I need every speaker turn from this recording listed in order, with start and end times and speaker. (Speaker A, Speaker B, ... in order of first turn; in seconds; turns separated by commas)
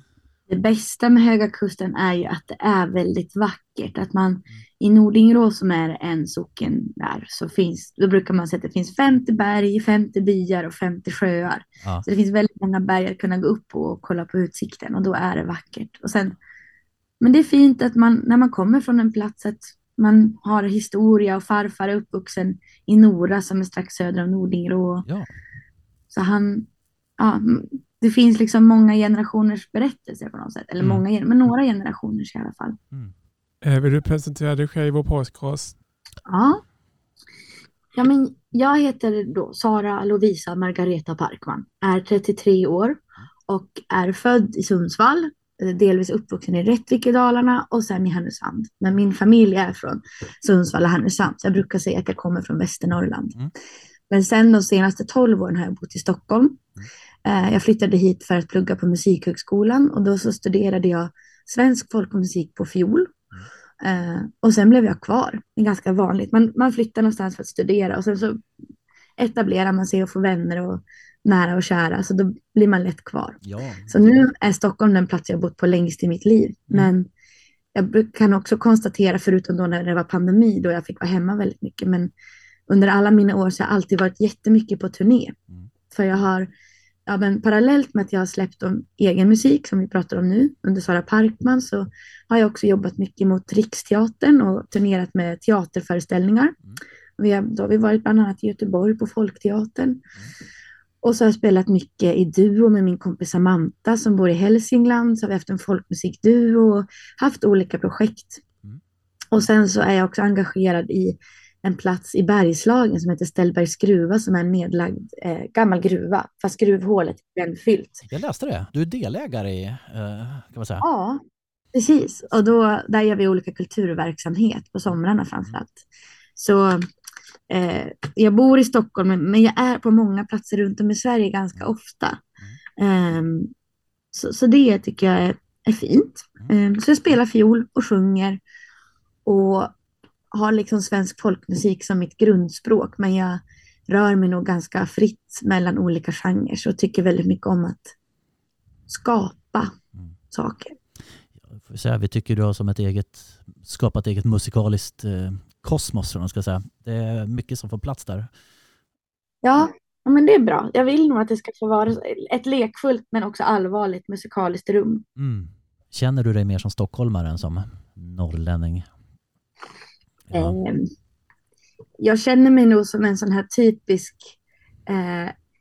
Speaker A: 0.5-16.4, Speaker A: 17.2-25.0, Speaker B: 25.1-25.3, Speaker A: 26.1-32.8, Speaker C: 33.6-35.8, Speaker A: 36.2-36.6, Speaker A: 37.9-53.3, Speaker A: 54.1-56.6, Speaker A: 57.2-63.1, Speaker A: 63.8-68.4, Speaker A: 69.2-77.1, Speaker B: 73.4-73.9, Speaker A: 77.7-82.1, Speaker A: 82.7-85.3, Speaker A: 85.9-86.5, Speaker A: 87.1-96.5, Speaker A: 97.2-100.0, Speaker A: 101.0-108.4, Speaker A: 109.3-118.0, Speaker B: 118.1-120.8, Speaker A: 120.8-121.2, Speaker A: 121.7-125.8, Speaker A: 126.3-126.9, Speaker A: 127.5-132.2, Speaker A: 132.8-133.5, Speaker A: 134.1-138.4, Speaker A: 139.2-139.7, Speaker A: 140.3-147.9, Speaker A: 148.9-149.7, Speaker A: 150.3-150.7, Speaker B: 151.4-158.3, Speaker A: 159.4-165.0, Speaker B: 165.2-168.9, Speaker B: 170.3-170.6, Speaker A: 170.3-170.9, Speaker A: 172.0-174.3, Speaker A: 174.9-175.3